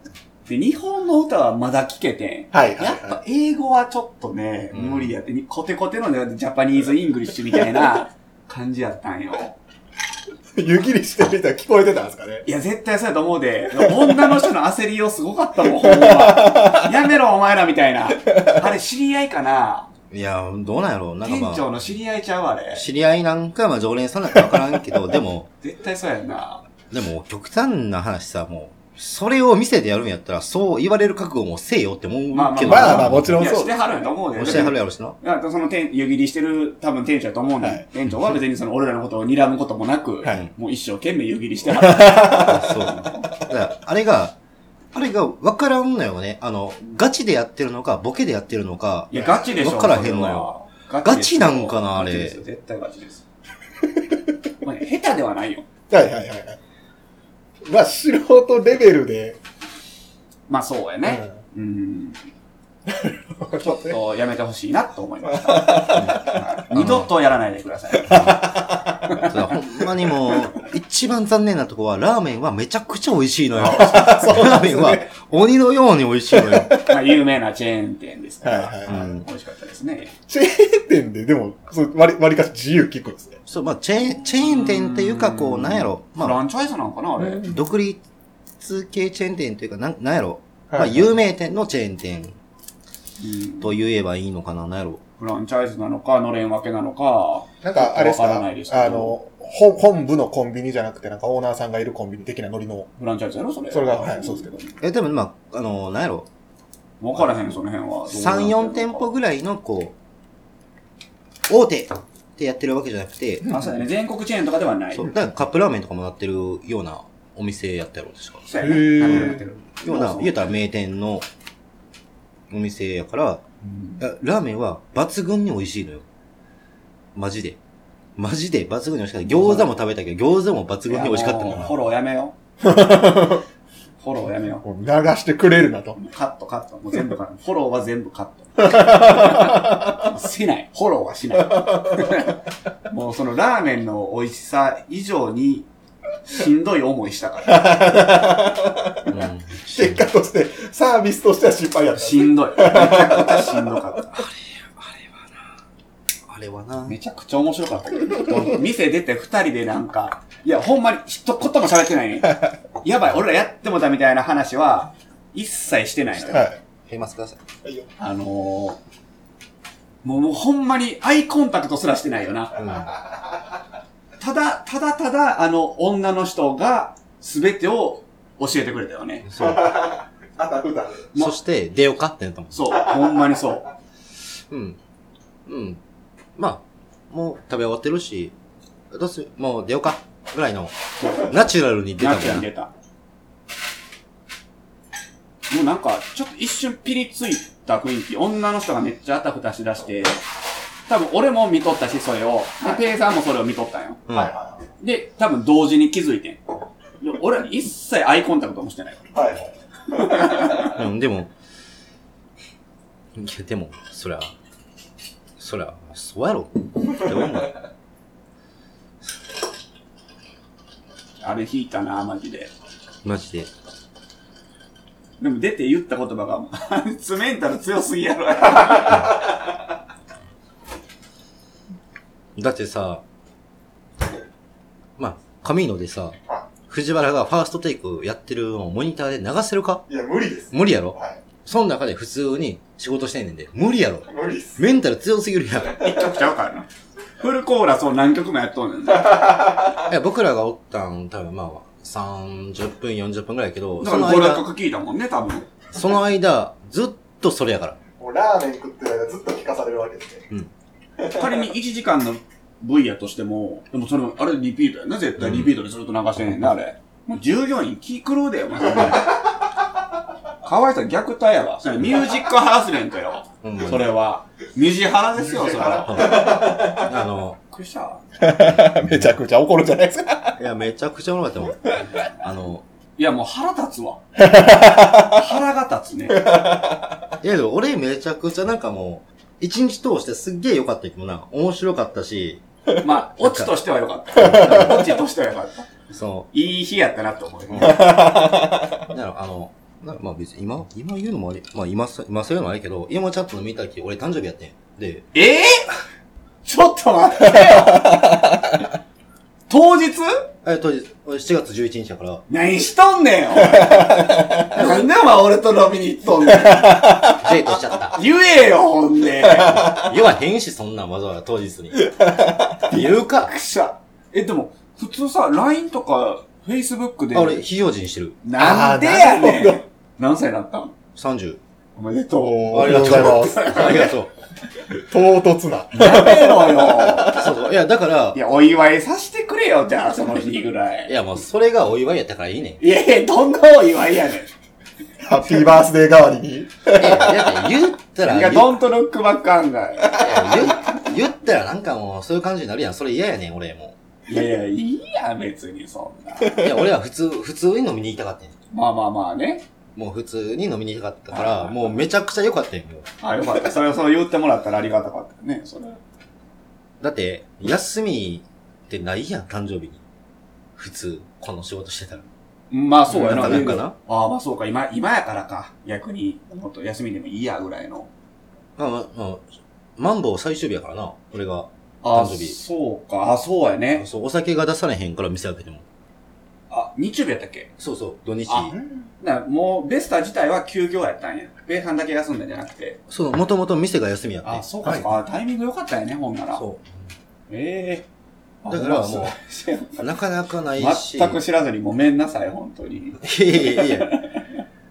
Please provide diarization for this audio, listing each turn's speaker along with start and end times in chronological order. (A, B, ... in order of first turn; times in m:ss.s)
0:00.4-0:09.6 A
0:02.5-0:03.2 B
0:04.7-0:05.1 C
0:10.6-0:12.4 B
0:12.4-0:19.9 A
0:15.8-0:16.9 B
0:20.1-0:21.7 C
0:21.2-0:22.8 A
0:22.7-0:25.5 C
0:25.6-0:26.6 A
0:26.9-0:33.4 C
0:32.3-0:43.3 A
0:32.6-0:33.7 B
0:34.4-0:35.2 C
0:41.8-0:42.6 B
0:42.4-0:44.4 C
0:44.9-0:50.5 C
0:49.1-0:53.2 A
0:51.0-0:52.4 C
0:54.6-0:55.7 A
0:55.9-0:56.6 B
0:57.6-0:59.4 B
1:00.5-1:02.2 A
1:01.0-1:01.3 B
1:02.9-1:04.0 B
1:03.5-1:09.3 A
1:05.3-1:06.4 B
1:06.0-1:07.1 C
1:08.1-1:08.6 C
1:08.1-1:09.2 B
1:09.2-1:16.8 C
1:13.6-1:14.3 A
1:13.7-1:15.0 B
1:16.3-1:16.9 B
1:16.8-1:20.1 A
1:18.4-1:19.0 B
1:18.9-1:19.2 C
1:20.3-1:23.4 B
1:23.5-1:26.4 C
1:24.2-1:27.5 A
1:27.2-1:27.6 B
1:27.4-1:28.0 C
1:28.6-1:32.4 C
1:30.7-1:31.1 B
1:33.2-1:33.7 A
1:33.6-1:35.0 C
1:35.2-1:39.2 A
1:37.6-1:42.9 B
1:43.0-1:44.7 A
1:43.7-1:44.6 B
1:44.8-1:46.3 C
1:47.0-1:49.1 A
1:48.1-1:49.9 C
1:51.5-1:53.5 C
1:53.5-1:55.1 A
1:54.9-1:58.5 C
1:58.4-2:00.4 A
1:58.6-1:59.4 B
1:59.0-2:01.2 C
2:02.5-2:03.4 C
2:03.6-2:04.0 A
2:04.0-2:06.0 C
2:07.1-2:07.6 C
2:08.2-2:11.7 C
2:09.3-2:09.7 A
2:10.9-2:12.3 A
2:12.6-2:13.4 B
2:14.0-2:14.6 A
2:14.6-2:16.0 B
2:16.0-2:25.7 A
2:18.6-2:19.8 B
2:21.5-2:22.2 B
2:26.3-2:27.8 A
2:27.5-2:29.0 B
2:29.1-2:30.0 C
2:29.7-2:33.8 B
2:32.0-2:34.2 A
2:34.2-2:35.4 C
2:36.3-2:36.9 C
2:36.8-2:46.5 A
2:46.3-2:46.6 B
2:46.9-2:47.4 C
2:47.6-2:47.9 B
2:48.0-2:48.8 A
2:50.0-2:52.6 A
2:52.6-2:52.9 C
2:54.2-2:59.3 A
2:59.2-2:59.7 C
2:59.4-3:01.1 B
3:01.1-3:02.6 C
3:02.5-3:03.6 A
3:02.9-3:03.4 B
3:04.5-3:04.8 C
3:05.4-3:05.8 C
3:06.4-3:08.3 C
3:08.9-3:12.5 C
3:11.0-3:11.3 A
3:12.0-3:12.7 A
3:15.5-3:20.2 A
3:20.9-3:24.0 A
3:24.1-3:24.3 C
3:24.1-3:24.6 B
3:24.8-3:26.4 A
3:27.0-3:29.1 A
3:29.1-3:30.4 B
3:30.0-3:30.7 A
3:30.6-3:31.3 C
3:33.1-3:34.3 C
3:35.4-3:37.5 C
3:41.2-3:42.5 A
3:43.0-3:43.5 C
3:45.2-3:49.1 A
3:52.4-3:53.0 C
3:55.0-3:56.2 C
3:56.7-3:59.8 C
3:59.9-4:01.2 B
4:00.5-4:06.0 C
4:04.1-4:04.6 B
4:05.8-4:06.7 A
4:07.2-4:09.3 A
4:09.0-4:09.7 B
4:09.8-4:14.4 C
4:13.8-4:15.5 A
4:15.7-4:17.8 C
4:18.0-4:20.2 B
4:21.0-4:21.4 B
4:21.1-4:29.1 A
4:25.2-4:25.5 C
4:30.4-4:36.2 A
4:33.4-4:33.9 C
4:35.2-4:36.9 B
4:35.9-4:37.4 C
4:37.5-4:38.0 A
4:38.2-4:40.4 B
4:38.6-4:39.1 C
4:40.4-4:42.6 C
4:43.0-4:44.0 A
4:44.2-4:45.2 B
4:45.0-4:46.3 A
4:46.1-4:46.8 B
4:47.2-4:52.4 C
4:52.8-4:55.7 A
4:53.2-4:53.5 C
4:54.2-4:54.8 C
4:55.9-4:56.3 C
4:56.3-4:58.1 A
4:57.5-4:58.0 C
4:57.8-4:58.4 B
4:58.8-5:05.0 C
5:05.1-5:05.7 A
5:06.4-5:08.0 A
5:09.5-5:10.2 A
5:10.4-5:12.2 C
5:12.3-5:17.1 A
5:14.5-5:14.8 C
5:17.1-5:18.0 C
5:17.9-5:19.8 A
5:19.5-5:21.9 C
5:21.8-5:22.6 B
5:22.6-5:23.3 C
5:22.7-5:27.4 A
5:27.1-5:28.2 C
5:28.2-5:30.7 A
5:28.4-5:29.6 B
5:30.9-5:31.4 C
5:31.8-5:33.9 A
5:32.2-5:33.5 B
5:32.5-5:34.1 C
5:34.7-5:37.3 B
5:35.7-5:37.2 A
5:37.1-5:38.2 C
5:38.1-5:41.0 A
5:40.9-5:42.6 C
5:42.6-5:44.3 A
5:45.0-5:47.2 B
5:46.7-5:48.6 C
5:48.0-5:50.6 A
5:49.9-5:53.8 C
5:54.1-5:56.4 A
5:56.3-5:58.3 C
5:58.5-5:59.4 A
5:59.8-6:02.9 C
6:01.1-6:01.7 A
6:03.0-6:05.8 A
6:06.8-6:09.8 C
6:10.6-6:12.1 C
6:12.5-6:17.9 A
6:12.9-6:13.8 C
6:18.6-6:22.4 C
6:21.8-6:23.8 A
6:23.8-6:25.6 C
6:26.5-6:27.5 A
6:27.6-6:28.6 C
6:28.3-6:32.8 A
6:32.9-6:34.9 C
6:34.2-6:36.4 A
6:36.4-6:36.8 C
6:37.3-6:37.9 A
6:38.4-6:39.9 A
6:38.5-6:39.2 C
6:39.8-6:41.2 C
6:40.6-6:44.4 A
6:43.0-6:44.0 C